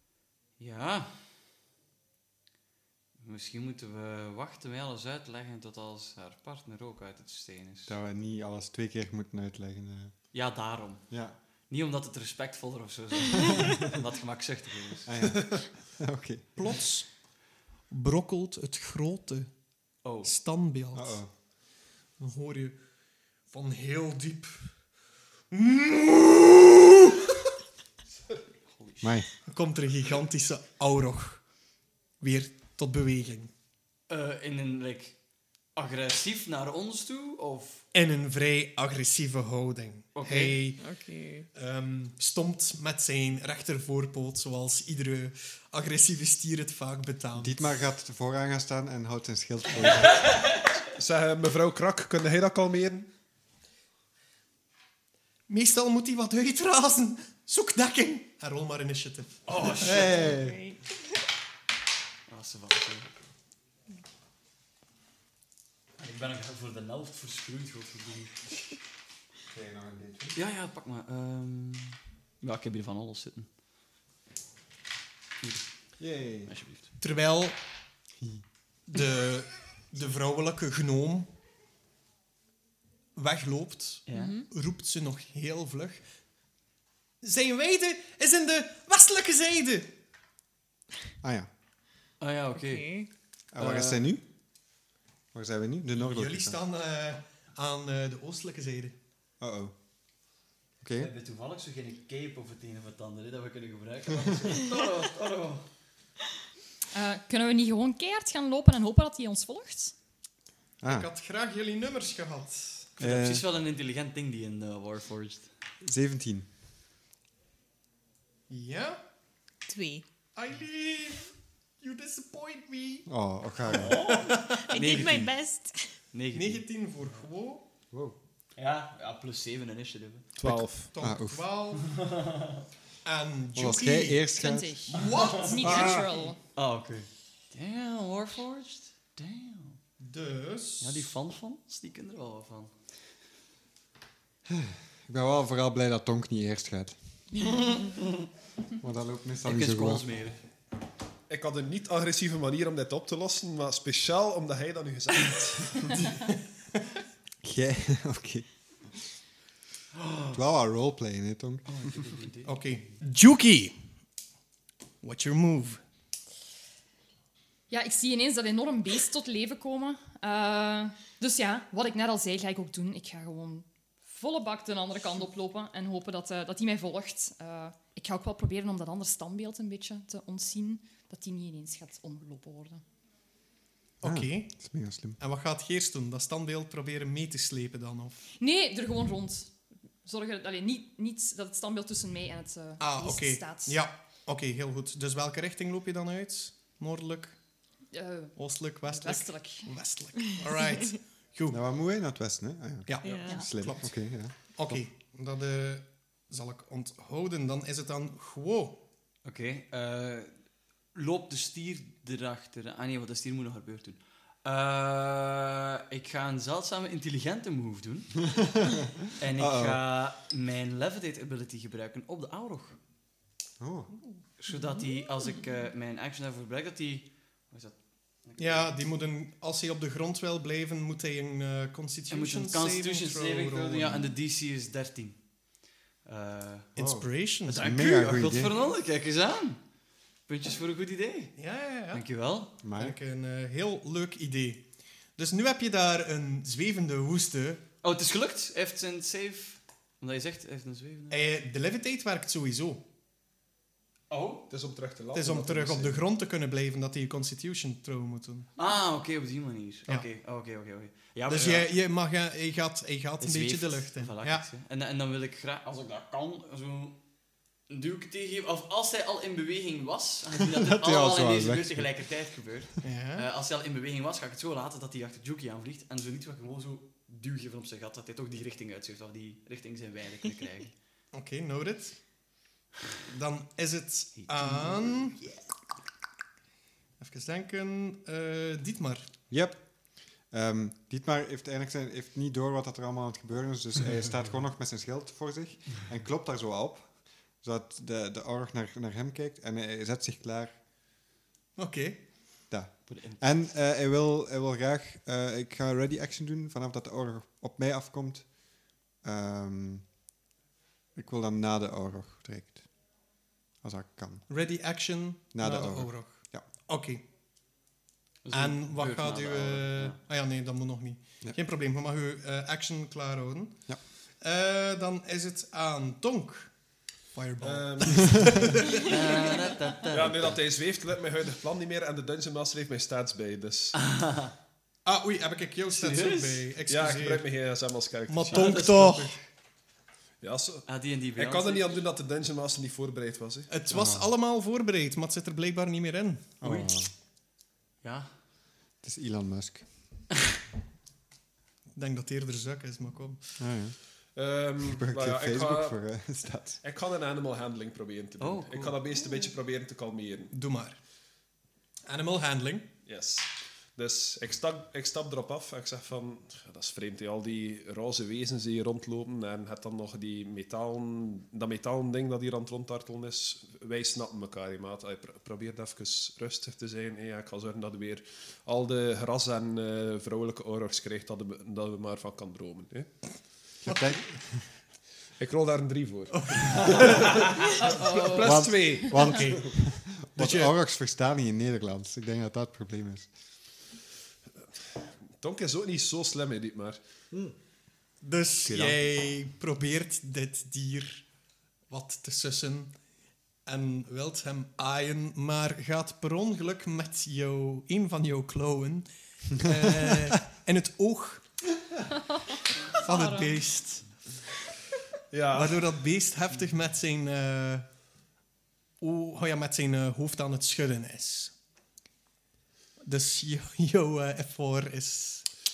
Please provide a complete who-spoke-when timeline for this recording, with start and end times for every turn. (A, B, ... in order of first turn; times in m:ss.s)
0:00.6-0:01.1 A
0:03.2-0:08.0 A
0:07.9-0:10.3 B
0:10.3-0:11.1 A
0:11.1-0:11.3 B
0:11.7-0:15.1 A
0:15.0-0:16.5 B
0:16.6-0:17.1 C
0:17.9-0:19.5 C
0:20.0-0:20.3 A
0:20.2-0:21.2 C
0:20.9-0:21.3 B
0:22.2-0:22.8 C
0:23.5-0:24.7 C
0:25.5-0:27.2 C
0:28.7-0:29.1 A
0:29.0-0:29.3 B
0:29.4-0:31.4 C
0:32.2-0:33.5 C
0:34.1-0:35.2 A
0:35.7-0:37.8 A
0:37.9-0:40.8 C
0:40.1-0:40.6 A
0:40.8-0:41.5 D
0:41.5-0:47.7 C
0:47.4-0:50.3 B
0:50.0-0:50.6 A
0:51.0-0:53.1 E
0:55.5-1:00.3 C
0:59.4-1:00.3 A
0:59.9-1:00.6 B
1:00.0-1:00.8 D
1:02.3-1:03.1 A
1:06.0-1:08.6 A
1:09.5-1:10.4 B
1:10.3-1:13.5 A
1:16.0-1:16.5 B
1:16.5-1:16.9 A
1:17.0-1:17.5 C
1:18.9-1:21.3 C
1:23.1-1:26.0 C
1:24.1-1:24.4 A
1:24.1-1:24.5 D
1:27.2-1:29.9 C
1:31.2-1:31.5 B
1:32.2-1:33.0 A
1:32.5-1:33.1 D
1:33.5-1:34.2 B
1:33.6-1:34.0 A
1:35.3-1:36.6 B
1:36.0-1:38.9 C
1:39.4-1:39.7 B
1:40.8-1:41.1 B
1:41.0-1:45.7 A
1:46.9-1:49.9 F
1:50.8-1:51.1 B
1:50.8-1:52.9 C
1:53.0-1:55.5 A
1:53.0-1:53.4 B
1:55.8-1:56.5 B
1:58.5-1:59.0 C
1:59.7-2:00.0 D
2:00.3-2:03.1 C
2:03.1-2:04.0 B
2:03.8-2:05.3 A
2:03.8-2:04.6 C
2:04.0-2:05.9 D
2:06.1-2:06.6 A
2:06.3-2:07.6 C
2:07.9-2:08.2 B
2:08.6-2:10.3 A
2:10.4-2:10.9 E
2:10.4-2:11.4 B
2:10.9-2:11.9 C
2:12.0-2:12.6 A
2:13.0-2:14.2 C
2:13.6-2:14.9 B
2:14.4-2:16.4 F
2:14.9-2:16.0 C
2:15.6-2:16.0 B
2:16.5-2:19.8 A
2:20.0-2:21.1 C
2:20.8-2:22.7 A
2:24.5-2:27.0 B
2:28.8-2:30.0 B
2:29.4-2:30.4 A
2:31.3-2:35.9 E
2:37.4-2:38.5 B
2:39.9-2:40.4 A
2:40.3-2:41.6 B
2:41.6-2:42.9 A
2:42.4-2:43.8 C
2:45.0-2:45.8 C
2:47.7-3:02.8 F
3:04.0-3:04.6 C
3:04.0-3:05.2 B
3:05.2-3:08.2 C
3:08.4-3:13.8 F
3:12.8-3:17.4 C
3:17.9-3:19.7 F
3:18.4-3:21.6 C
3:21.5-3:24.8 B
3:22.8-3:23.9 C
3:23.0-3:23.5 D
3:24.5-3:28.8 C
3:29.2-3:30.4 A
3:30.9-3:38.2 A
3:38.4-3:38.8 B
3:39.2-3:42.8 A
3:39.4-3:39.8 B
3:43.6-3:43.9 B
3:44.4-3:48.7 A
3:48.4-3:54.0 C
3:52.1-3:56.7 A
3:56.8-3:57.9 C
3:56.8-3:58.5 B
3:57.5-3:59.6 A
4:00.3-4:01.4 A
4:01.4-4:02.0 C
4:01.9-4:02.5 A
4:02.6-4:03.0 B
4:02.7-4:07.6 C
4:07.8-4:11.2 A
4:11.1-4:12.8 C
4:14.1-4:14.5 A
4:14.5-4:16.0 E
4:15.1-4:18.5 C
4:18.6-4:21.7 A
4:21.3-4:24.4 C
4:23.2-4:27.0 A
4:27.7-4:40.7 A
4:30.5-4:31.9 B
4:32.8-4:33.2 C
4:41.1-4:42.0 C
4:43.0-4:45.2 C
4:44.2-4:45.4 A
4:47.0-4:49.1 C
4:49.3-5:00.6 B
5:01.6-5:02.1 C
5:02.5-5:09.9 B
5:02.9-5:03.2 A
5:10.9-5:13.1 B
5:13.6-5:14.3 B
5:14.3-5:17.0 C
5:15.3-5:16.4 B
5:18.2-5:20.0 A
5:18.3-5:23.7 C
5:24.2-5:26.6 C
5:27.1-5:29.4 C
5:27.4-5:28.3 E
5:28.8-5:30.4 A
5:29.9-5:33.8 E
5:33.7-5:34.3 A
5:34.8-5:37.3 C
5:35.7-5:36.4 A
5:36.7-5:38.7 E
5:38.1-5:39.2 C
5:38.2-5:39.2 A
5:40.2-5:43.5 E
5:40.6-5:41.8 A
5:43.5-5:46.4 C
5:43.7-5:44.1 B
5:46.4-5:46.9 B
5:46.4-5:46.7 A
5:47.8-5:48.1 A
5:48.8-5:49.7 B
5:51.8-5:53.2 C
5:53.4-5:53.8 B
5:54.1-5:55.8 E
5:54.6-5:56.6 B
5:56.6-6:00.3 E
5:58.2-5:58.7 A
6:00.3-6:00.8 C
6:01.8-6:02.7 C
6:02.8-6:22.9 E
6:23.6-6:24.4 B
6:25.2-6:29.1 E
6:26.2-6:26.9 C
6:27.8-6:28.1 F
6:28.2-6:33.1 B
6:29.0-6:30.5 C
6:35.2-6:36.8 E
6:38.0-6:41.0 C
6:38.4-6:38.8 B
6:41.7-6:42.7 C
6:43.4-6:51.3 C
6:52.7-6:54.1 C
6:52.8-6:53.4 F
6:55.1-6:55.7 E
6:55.3-6:57.7 C
6:58.8-7:01.3 C
7:02.8-7:05.2 C